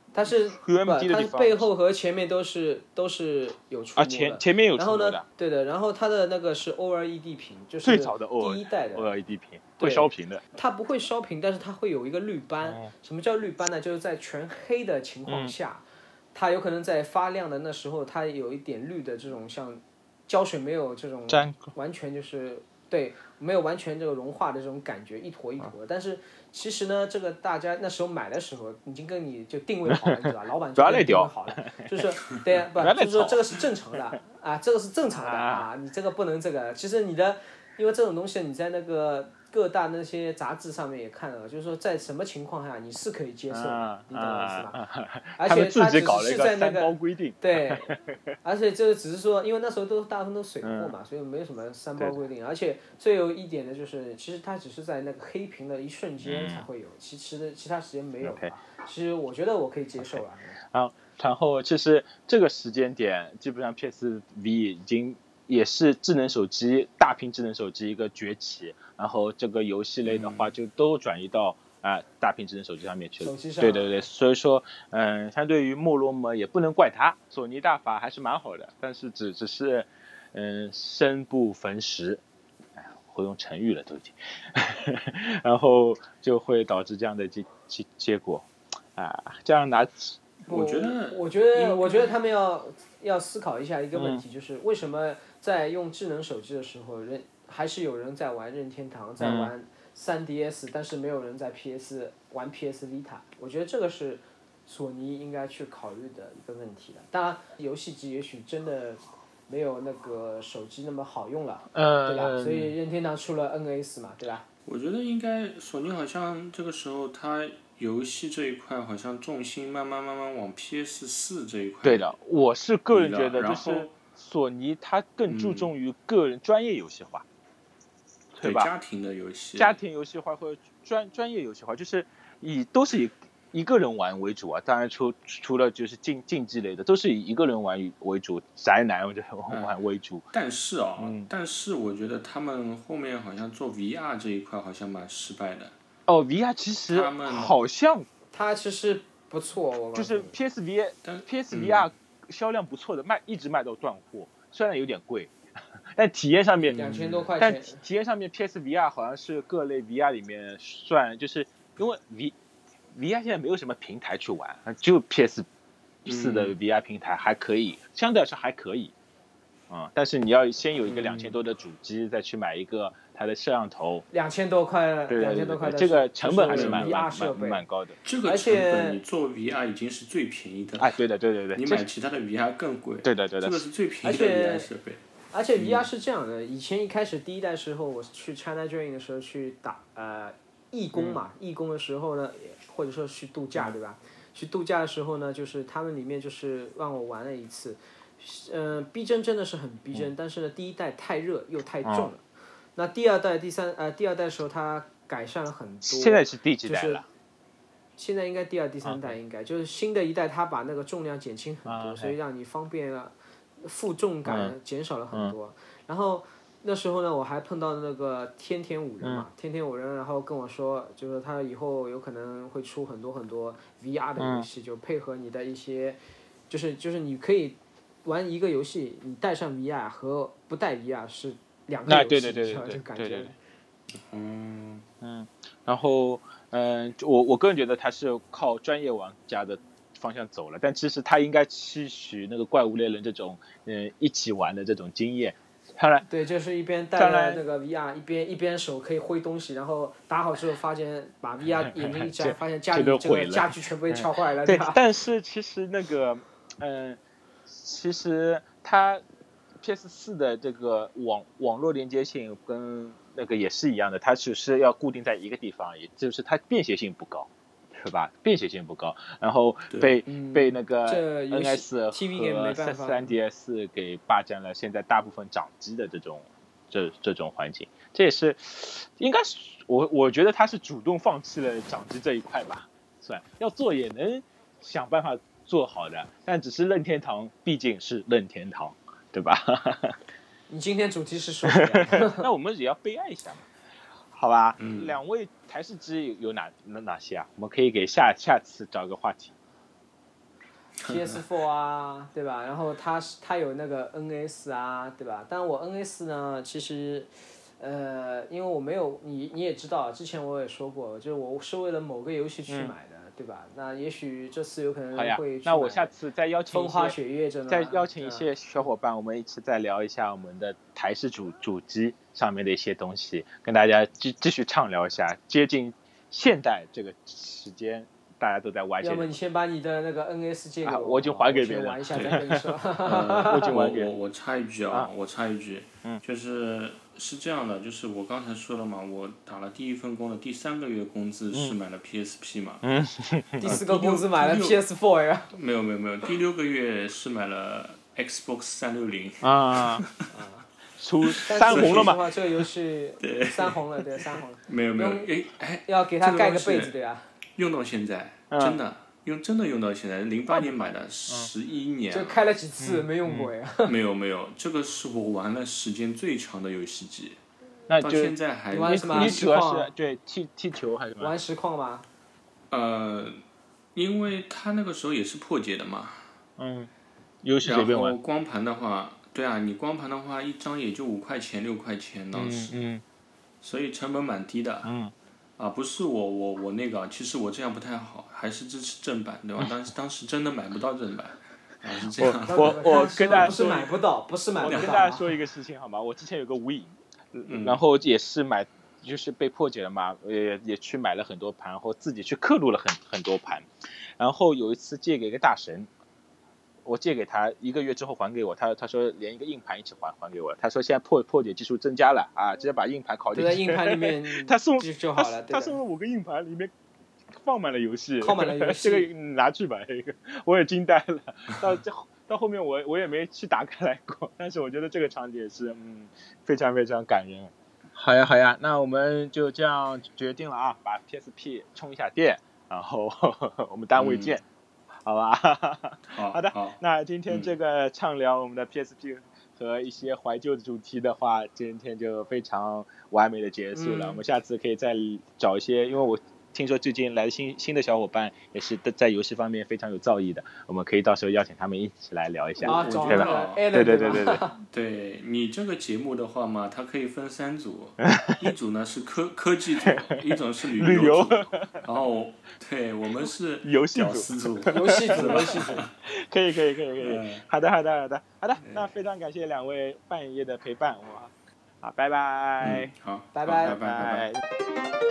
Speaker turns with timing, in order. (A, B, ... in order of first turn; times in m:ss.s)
0:00.1-0:09.1 A
0:00.3-0:01.7 B
0:04.0-0:05.2 B
0:07.8-0:10.4 B
0:09.8-0:44.8 A
0:12.6-0:12.9 B
0:15.3-0:15.6 B
0:21.3-0:21.7 B
0:29.9-0:32.0 B
0:32.8-0:33.6 B
0:35.1-0:35.7 B
0:43.5-0:48.2 B
0:45.4-1:00.6 A
0:50.6-0:51.0 B
0:56.2-0:56.7 B
0:58.2-0:58.6 B
1:00.0-1:22.2 B
1:10.1-1:10.5 C
1:13.2-1:14.0 A
1:22.8-1:30.2 B
1:30.4-1:54.4 A
1:30.5-1:32.1 C
1:33.9-1:34.2 B
1:39.2-1:39.5 B
1:51.7-1:52.8 B
1:54.7-2:02.1 C
2:01.8-2:07.2 B
2:02.9-2:04.0 C
2:05.3-2:05.7 C
2:08.4-2:08.7 B
2:08.4-2:09.8 C
2:09.6-2:20.3 B
2:19.5-2:19.8 C
2:20.3-2:25.8 C
2:21.0-2:21.3 B
2:26.1-2:28.1 B
2:26.9-2:27.6 C
2:28.3-2:30.4 A
2:30.0-2:42.4 B
2:31.0-2:31.9 C
2:36.8-2:37.8 A
2:42.9-2:45.5 B
2:46.0-2:48.9 B
2:46.1-2:46.6 C
2:49.7-2:54.1 B
2:50.9-2:51.4 C
2:54.1-2:57.6 A
2:55.1-2:58.0 B
2:56.4-2:57.0 C
2:58.0-3:01.0 C
2:58.2-2:59.0 A
3:00.8-3:01.8 B
3:01.5-3:05.0 C
3:03.0-3:03.6 B
3:04.0-3:04.7 A
3:05.3-3:22.2 A
3:10.9-3:11.2 B
3:21.8-3:22.1 B
3:22.8-3:27.0 A
3:25.8-3:27.1 B
3:28.0-3:53.4 A
3:28.8-3:29.2 B
3:31.7-3:32.2 B
3:34.3-3:34.6 B
3:39.0-3:39.3 B
3:44.2-3:44.5 B
3:51.9-3:53.3 B
3:53.9-3:54.9 C
3:55.0-4:06.1 B
4:06.1-4:14.8 A
4:07.0-4:07.4 B
4:11.6-4:19.0 B
4:19.6-4:50.0 B
4:30.1-4:33.1 A
4:50.5-4:52.3 A
4:51.5-4:53.4 B
4:54.1-4:59.3 B
4:54.6-4:55.0 C
5:00.8-5:01.2 C
5:00.8-5:15.9 A
5:12.5-5:12.7 B
5:15.0-5:17.0 B
5:16.5-5:18.3 A
5:17.5-5:29.1 B
5:28.8-5:33.5 A
5:30.6-5:33.9 B
5:31.9-5:32.2 C
5:32.8-5:42.6 C
5:42.6-5:43.6 B
5:43.4-5:45.3 A
5:43.4-5:44.6 C
5:45.3-5:50.0 C
5:49.2-5:49.9 B
5:50.1-5:50.5 A
5:50.8-5:52.0 B
5:51.1-5:52.0 C
5:51.3-5:55.1 A
5:53.0-5:56.7 C
5:55.7-5:57.1 A
5:57.4-6:02.2 C
5:58.3-5:58.6 B
6:01.9-6:03.7 A
6:02.6-6:03.3 B
6:03.6-6:07.2 C
6:07.7-6:08.2 B
6:07.8-6:09.2 C
6:08.5-6:09.7 A
6:08.7-6:11.1 B
6:11.0-6:11.9 A
6:12.5-6:13.2 C
6:13.8-6:16.1 C
6:16.4-6:16.7 B
6:17.2-6:18.0 B
6:17.4-6:22.6 C
6:22.1-6:22.8 B
6:23.4-6:24.7 C
6:24.6-6:24.9 B
6:25.4-6:33.4 C
6:31.9-6:33.7 B
6:32.3-6:35.1 A
6:34.4-6:43.5 B
6:34.4-6:34.8 C
6:37.3-6:37.6 C
6:44.0-6:45.7 B
6:46.6-6:56.5 B
6:53.1-6:55.6 A
6:57.2-7:14.2 B
6:58.0-6:58.9 A
7:13.8-7:14.2 C
7:14.8-7:34.2 B
7:15.9-7:17.4 C
7:23.6-7:24.0 A
7:32.4-7:33.4 C
7:32.4-7:34.4 A
7:34.4-7:45.7 C
7:37.8-7:38.3 B
7:39.7-7:40.0 B
7:40.6-7:41.6 B
7:43.4-7:52.7 B
7:44.5-7:45.7 A
7:46.8-7:47.2 C
7:48.4-7:48.8 C
7:52.4-7:54.1 C
7:53.1-7:53.6 A
7:53.4-7:54.2 B